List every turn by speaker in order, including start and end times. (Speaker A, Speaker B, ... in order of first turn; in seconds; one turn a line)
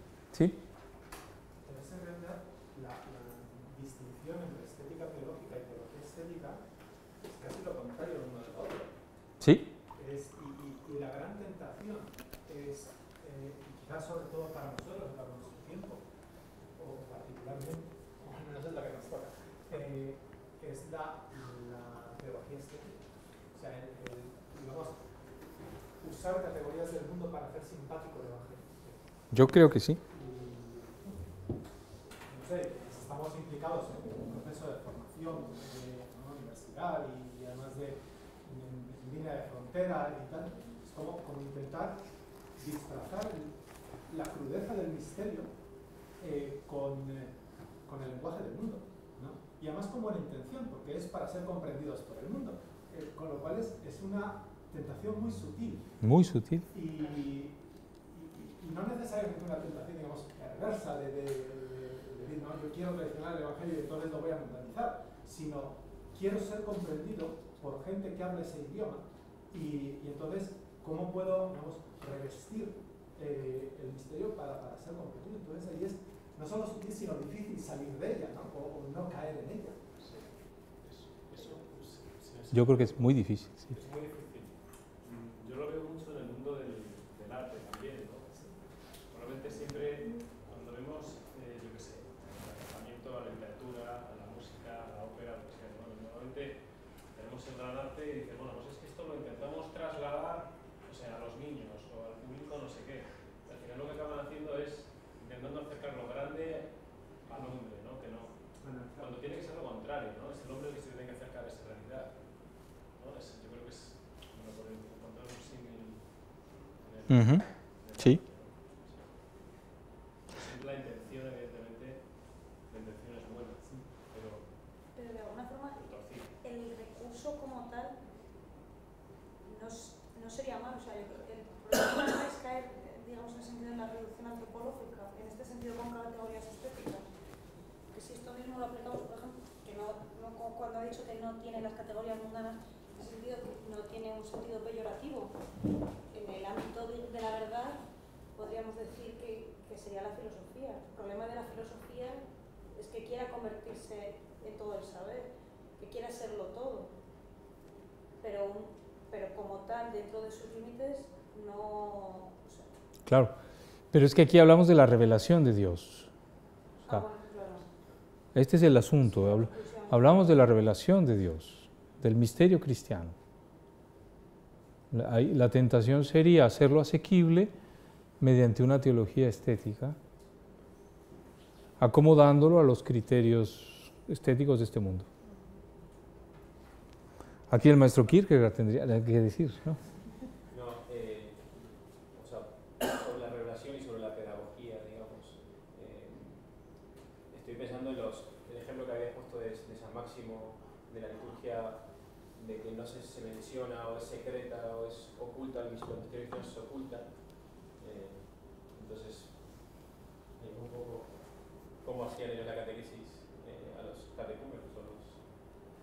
Speaker A: 0.3-0.6
Speaker B: 1.6-6.6
Speaker B: 7.2-8.9
Speaker A: 9.4-9.7
Speaker B: 9.9-16.0
Speaker B: 16.8-25.1
Speaker B: 26.0-29.0
Speaker A: 29.3-30.0
Speaker B: 30.1-31.1
Speaker B: 32.3-42.0
Speaker B: 42.5-45.5
Speaker B: 46.2-47.3
Speaker B: 47.9-55.9
Speaker A: 56.0-56.6
Speaker B: 56.7-79.8
Speaker C: 80.0-83.1
Speaker A: 82.5-83.7
Speaker C: 83.7-84.5
Speaker C: 85.0-88.3
Speaker C: 89.1-96.6
Speaker C: 97.1-108.3
Speaker B: 108.6-109.2
Speaker C: 109.0-119.2
Speaker A: 117.1-118.2
Speaker C: 120.3-124.5
Speaker D: 124.9-128.0
Speaker C: 125.8-126.3
Speaker D: 129.4-137.1
Speaker D: 137.9-145.3
Speaker D: 146.1-147.8
Speaker D: 148.3-156.9
Speaker D: 158.2-162.7
Speaker A: 163.1-163.3
Speaker A: 163.9-166.1
Speaker D: 166.8-167.7
Speaker A: 168.3-173.1
Speaker D: 169.2-170.1
Speaker A: 174.9-177.5
Speaker A: 178.2-180.0
Speaker A: 181.8-185.1
Speaker A: 187.5-189.8
Speaker E: 190.5-196.6
Speaker E: 197.3-209.8
Speaker E: 210.3-215.2